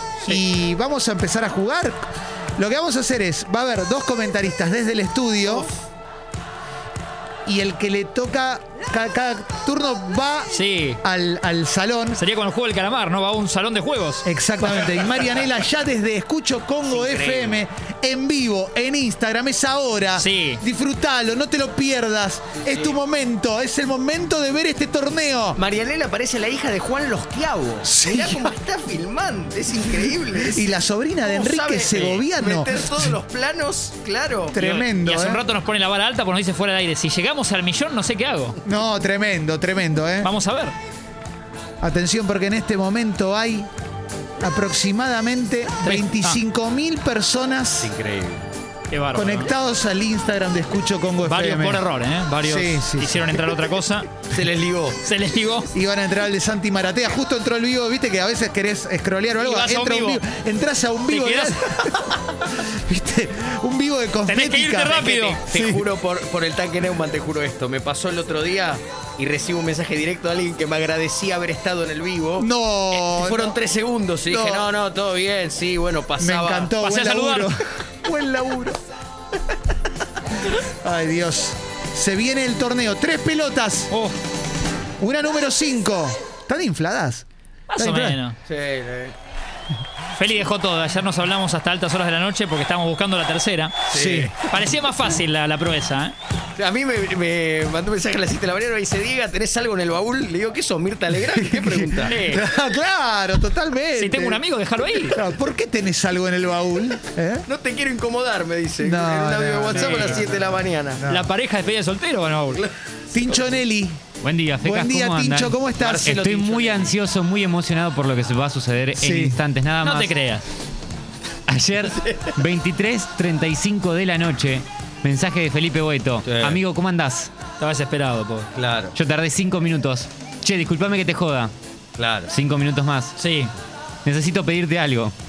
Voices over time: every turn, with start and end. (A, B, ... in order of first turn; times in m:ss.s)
0:00.2-0:05.7 A
0:07.5-0:12.2 A
0:10.5-0:11.0 B
0:12.2-0:14.2 B
0:14.2-0:25.6 A
0:16.9-0:17.6 C
0:20.2-0:20.6 B
0:25.6-0:30.7 C
0:27.8-0:28.5 A
0:30.4-0:33.2 A
0:31.2-0:34.6 C
0:34.5-0:35.4 A
0:34.6-0:38.6 B
0:38.6-0:40.3 A
0:40.2-0:40.8 B
0:41.8-0:43.7 A
0:44.4-0:47.9 A
0:45.8-0:46.4 B
0:47.8-0:48.5 C
0:48.9-0:49.5 B
0:49.2-0:51.8 A
0:51.2-0:54.1 B
0:52.4-0:53.5 A
0:54.3-0:55.0 C
0:55.0-0:55.7 B
0:55.7-1:05.8 A
0:59.4-1:00.2 B
1:01.1-1:01.6 B
1:04.3-1:05.4 B
1:05.0-1:16.7 C
1:12.4-1:13.6 A
1:14.3-1:14.7 A
1:16.2-1:18.8 A
1:16.8-1:17.5 B
1:20.5-1:23.9 A
1:23.9-1:24.2 B
1:25.0-1:28.2 A
1:27.7-1:28.4 B
1:28.5-1:29.2 C
1:30.2-1:33.8 B
1:33.9-1:34.3 C
1:33.9-1:34.3 A
1:34.4-1:36.1 B
1:36.6-1:42.2 C
1:41.3-1:44.4 A
1:42.1-1:42.4 B
1:44.0-1:45.2 B
1:45.0-1:47.4 A
1:47.5-1:51.0 C
1:48.8-1:50.3 A
1:49.7-1:50.2 B
1:51.0-1:51.3 A
1:51.1-1:52.6 B
1:53.1-1:54.0 A
1:54.2-2:00.1 D
1:54.6-1:56.1 A
1:55.8-1:56.9 C
1:59.0-1:59.4 A
1:59.8-2:00.4 B
2:01.5-2:07.3 D
2:01.9-2:02.4 C
2:06.2-2:06.6 C
2:07.6-2:08.5 B
2:08.6-2:08.9 C
2:08.9-2:11.5 D
2:12.0-2:12.3 C
2:12.3-2:13.2 D
2:13.2-2:13.5 B
2:14.0-2:15.1 D